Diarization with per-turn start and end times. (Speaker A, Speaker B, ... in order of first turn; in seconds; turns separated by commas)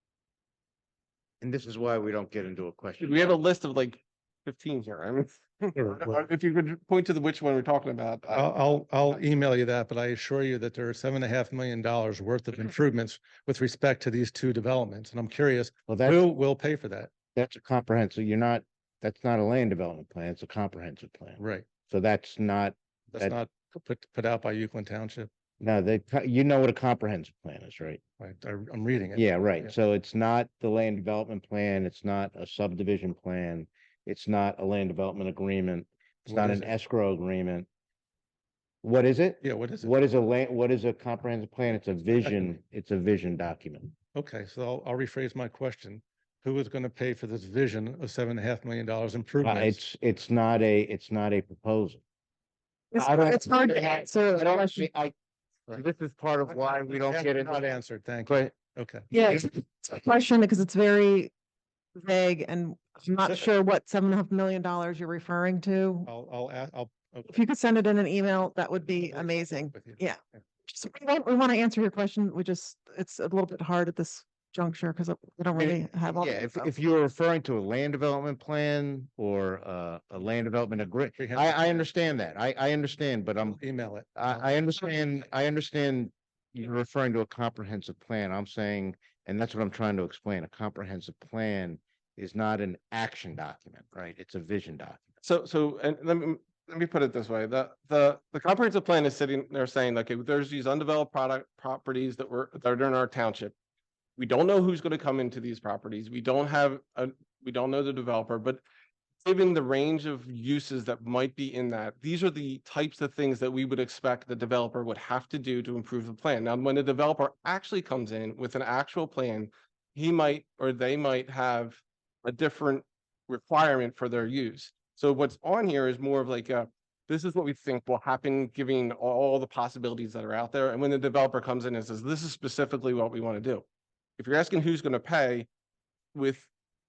Speaker A: 1.4-3.4, Speaker B: 3.0-8.5, Speaker C: 5.8-6.2, Speaker C: 8.3-17.1, Speaker A: 15.9-16.2, Speaker A: 17.4-23.4, Speaker C: 21.4-21.7, Speaker C: 23.1-25.3, Speaker A: 25.6-28.0, Speaker C: 28.2-29.7, Speaker A: 29.1-37.7, Speaker C: 36.3-36.7, Speaker A: 38.8-43.9, Speaker C: 39.4-39.9, Speaker C: 44.1-49.8, Speaker A: 49.4-52.0, Speaker D: 52.9-54.9, Speaker A: 53.0-55.1, Speaker A: 55.7-57.7, Speaker C: 57.0-59.1, Speaker A: 58.3-58.5, Speaker D: 59.1-61.3, Speaker D: 62.0-66.1, Speaker C: 66.1-67.3, Speaker D: 67.3-76.7, Speaker C: 69.0-70.0, Speaker A: 75.6-83.6, Speaker C: 81.2-81.8, Speaker C: 83.5-84.5, Speaker A: 84.2-95.0, Speaker B: 95.2-103.5, Speaker B: 104.2-108.6, Speaker B: 109.2-133.7, Speaker B: 134.2-135.5, Speaker B: 136.1-136.5